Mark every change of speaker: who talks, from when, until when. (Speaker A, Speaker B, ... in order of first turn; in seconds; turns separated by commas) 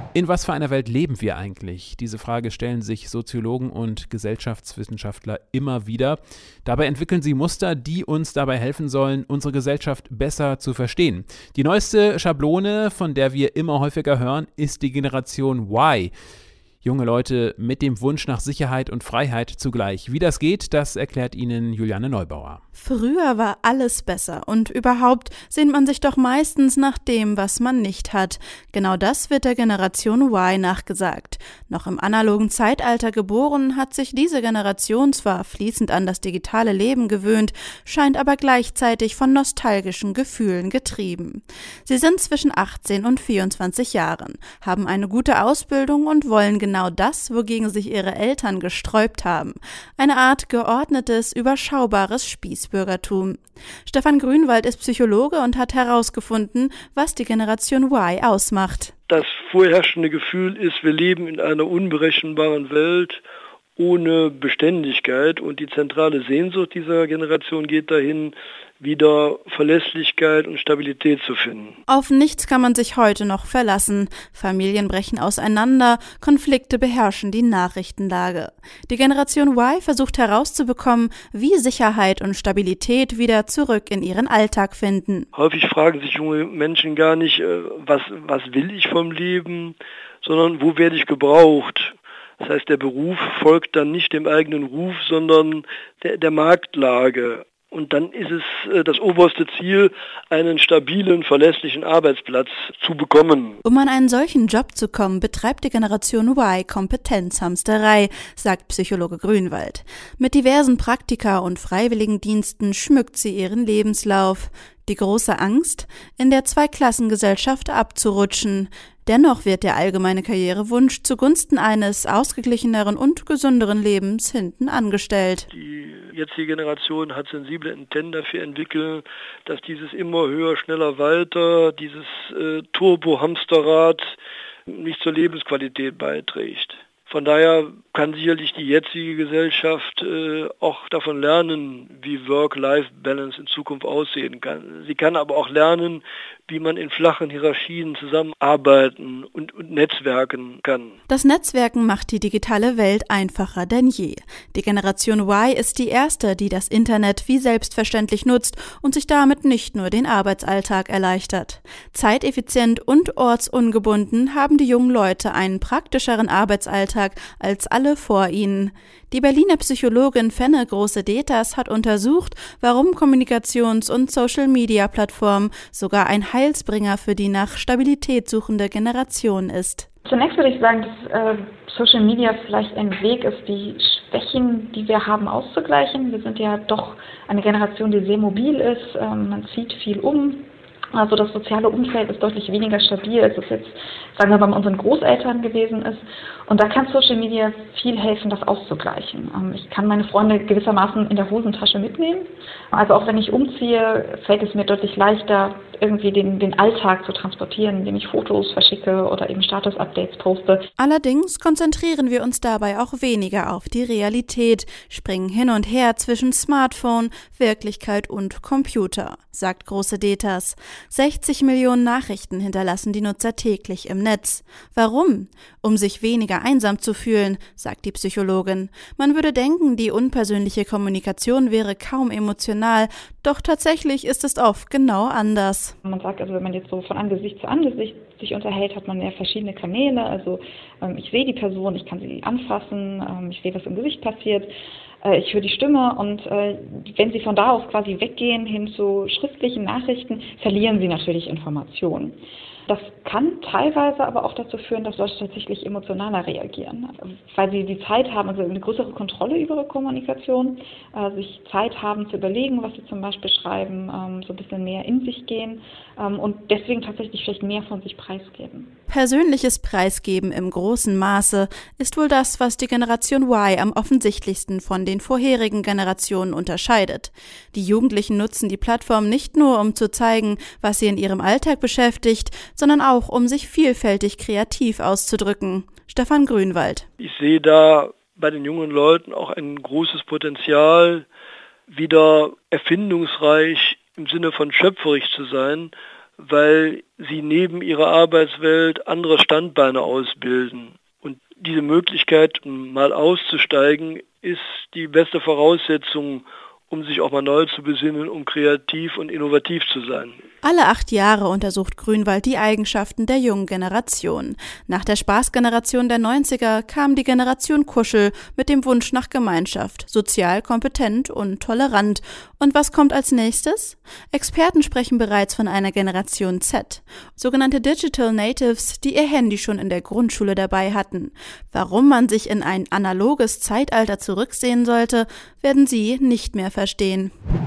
Speaker A: 0.1-16.1, Speaker A: 16.8-22.6, Speaker B: 22.8-58.9, Speaker C: 59.1-63.2, Speaker C: 63.8-71.8, Speaker B: 71.9-85.2, Speaker C: 85.3-103.6, Speaker B: 103.6-125.5, Speaker C: 125.5-134.2, Speaker C: 134.7-151.0, Speaker B: 151.1-179.9, Speaker D: 180.1-210.6, Speaker B: 210.8-235.7, Speaker D: 235.8-252.2, Speaker D: 252.7-268.7, Speaker B: 268.9-286.8, Speaker C: 287.0-291.1, Speaker C: 291.7-310.2, Speaker B: 310.4-337.1